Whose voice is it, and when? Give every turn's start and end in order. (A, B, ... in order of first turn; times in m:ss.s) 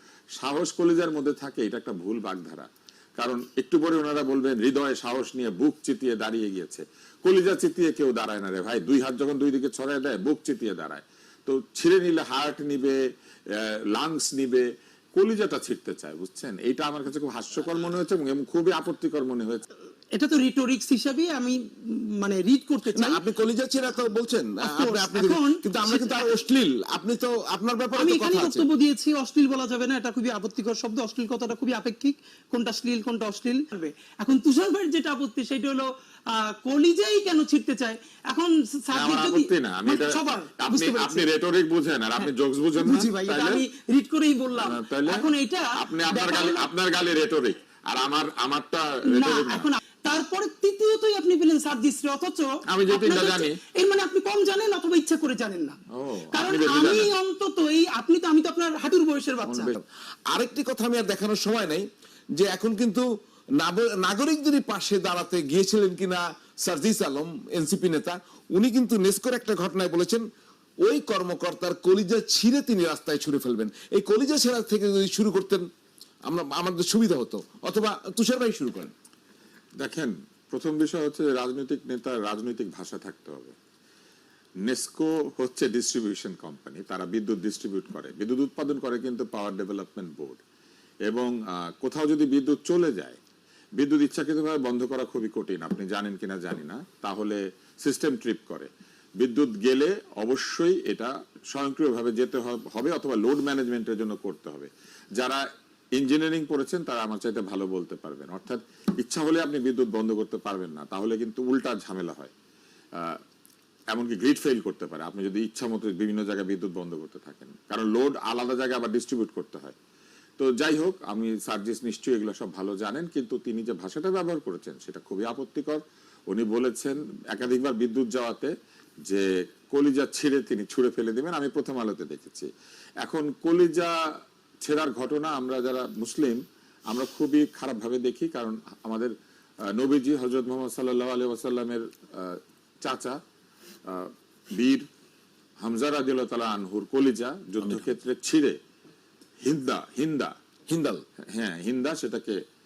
0:00.4-0:13.0 A
0:13.5-0:19.6 A
0:20.2-0:21.6 B
0:22.2-0:23.2 B
0:23.0-0:28.6 C
0:24.6-0:26.2 B
0:28.0-0:41.2 B
0:38.9-0:43.6 A
0:42.2-0:46.7 B
0:44.6-0:49.7 A
0:49.1-0:55.8 B
0:52.7-0:53.6 A
0:55.9-0:57.1 A
0:56.3-0:59.7 B
0:59.4-1:03.1 C
1:03.6-1:10.2 C
1:10.8-1:15.7 C
1:16.3-1:18.9 C
1:19.8-1:23.6 A
1:24.6-1:30.4 A
1:31.1-1:33.2 A
1:33.8-1:45.4 A
1:46.0-1:52.3 A
1:53.9-1:59.8 A
2:00.4-2:08.5 A
2:09.1-2:12.5 A
2:13.0-2:14.0 A
2:14.6-2:19.1 A
2:19.7-2:23.2 A
2:23.9-2:24.9 A
2:25.6-2:28.6 A
2:27.6-2:27.9 C
2:29.4-2:30.4 A
2:30.7-2:31.0 C
2:31.3-2:32.4 A